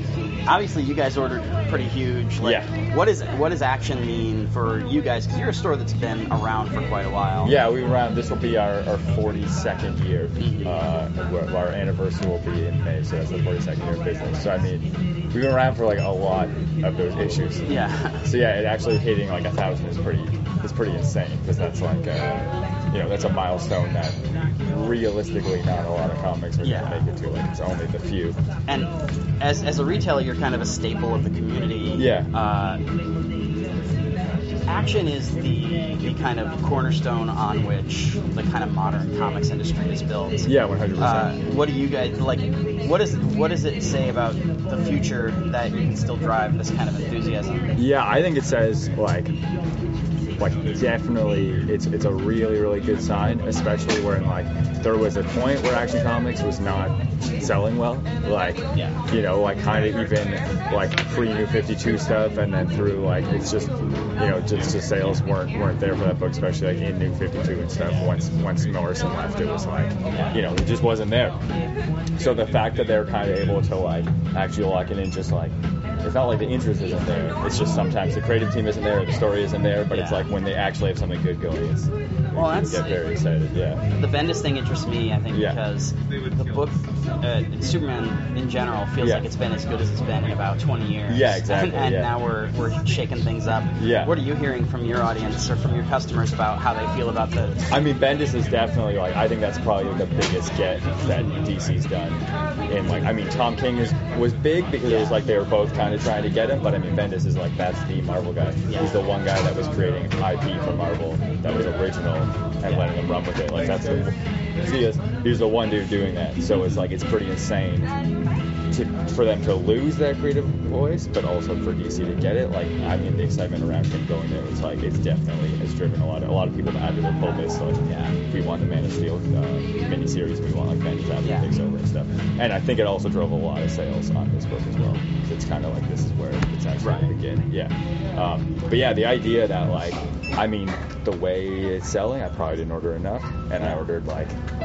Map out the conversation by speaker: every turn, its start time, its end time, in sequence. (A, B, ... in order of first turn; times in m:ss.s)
0:00.4-0:07.5 A
0:02.4-0:02.7 B
0:07.4-0:28.4 B
0:10.4-0:10.8 A
0:17.6-0:18.2 A
0:26.6-0:27.0 A
0:28.7-0:32.8 A
0:31.9-0:32.3 B
0:34.6-0:47.7 A
0:40.4-0:41.4 B
0:47.8-0:49.3 B
0:50.4-1:11.4 B
1:12.2-1:23.8 B
1:19.9-1:20.3 A
1:22.3-1:22.9 A
1:24.0-1:37.6 A
1:25.3-1:25.6 B
1:29.0-1:29.2 B
1:31.1-1:32.1 B
1:33.8-1:34.1 B
1:37.7-1:57.9 B
1:44.8-1:45.1 A
1:48.7-1:49.0 A
1:58.7-2:24.3 B
2:07.9-2:08.1 A
2:11.2-2:11.5 A
2:16.8-2:17.1 A